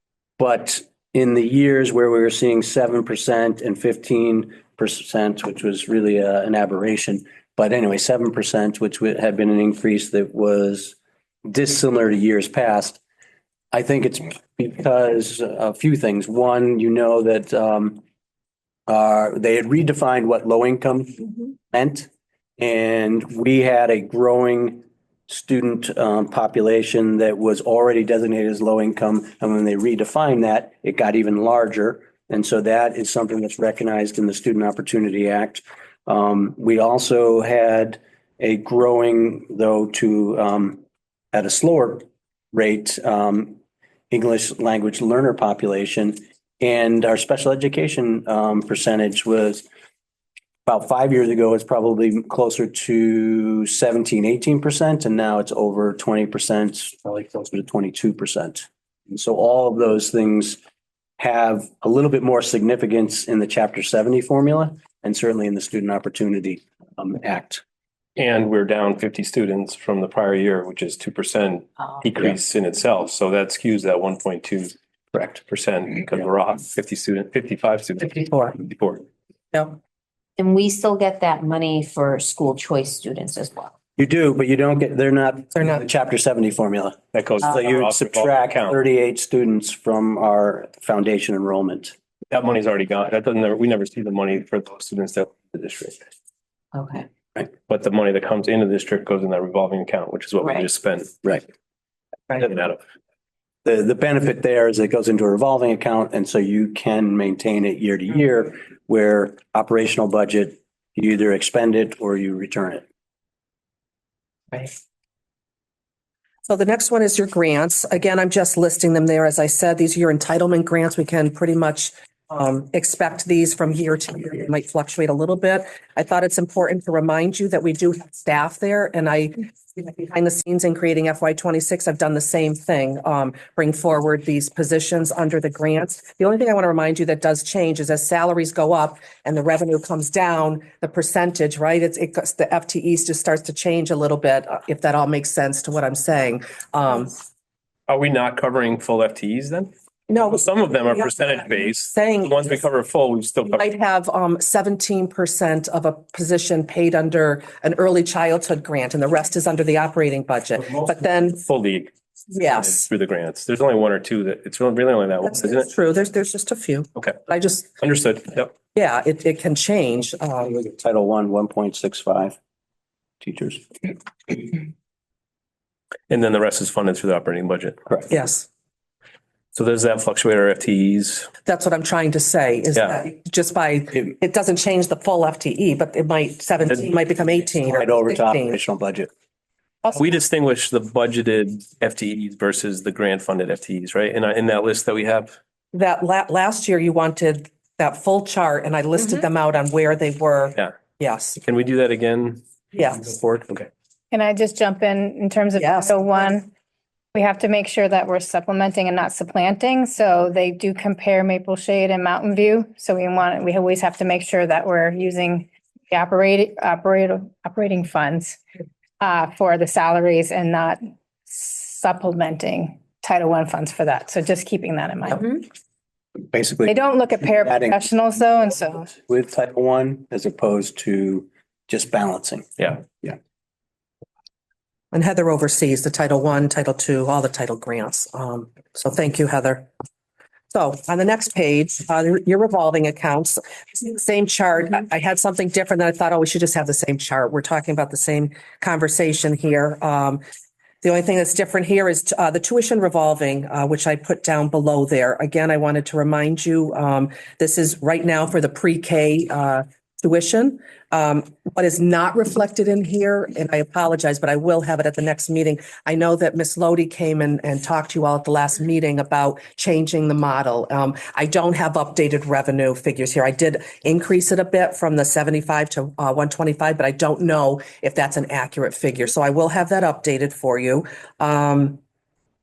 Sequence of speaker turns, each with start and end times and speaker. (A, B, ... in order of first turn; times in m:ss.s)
0:00.4-0:13.0 A
0:13.7-0:18.0 A
0:18.9-0:40.8 A
0:41.3-0:43.6 A
0:44.1-0:49.6 A
0:50.6-1:00.6 A
1:01.2-1:07.6 A
1:08.2-1:19.0 B
1:18.2-1:18.6 C
1:20.4-1:23.7 D
1:24.0-1:27.0 A
1:27.1-1:28.8 B
1:27.5-1:31.9 A
1:32.3-1:36.0 B
1:36.7-1:37.0 D
1:37.7-1:41.1 B
1:42.3-1:42.8 B
1:43.6-1:52.8 A
1:56.5-2:27.1 C
2:27.9-2:33.6 B
2:30.1-2:30.4 C
2:31.1-2:32.4 C
2:33.5-2:41.4 C
2:40.7-2:41.9 B
2:42.3-2:42.9 C
2:42.5-2:45.7 B
2:45.2-2:47.7 C
2:47.8-2:48.5 B
2:48.7-2:50.5 C
2:50.4-2:52.4 A
2:53.2-2:53.6 A
2:56.1-2:57.8 B
2:58.1-2:58.5 C
2:59.5-3:01.3 B
3:01.4-3:08.6 C
3:02.8-3:03.0 B
3:07.7-3:09.1 A
3:09.9-3:15.3 B
3:15.7-3:21.4 C
3:21.4-3:22.4 B
3:22.7-3:23.1 C
3:23.0-3:23.7 B
3:24.1-3:26.5 E
3:25.6-3:26.3 C
3:27.1-3:38.4 E
3:39.0-3:45.4 E
3:46.3-3:47.8 A
3:46.6-3:49.0 E
3:48.9-3:53.2 A
3:54.9-3:59.7 C
4:00.5-4:10.2 C
4:10.8-4:41.8 C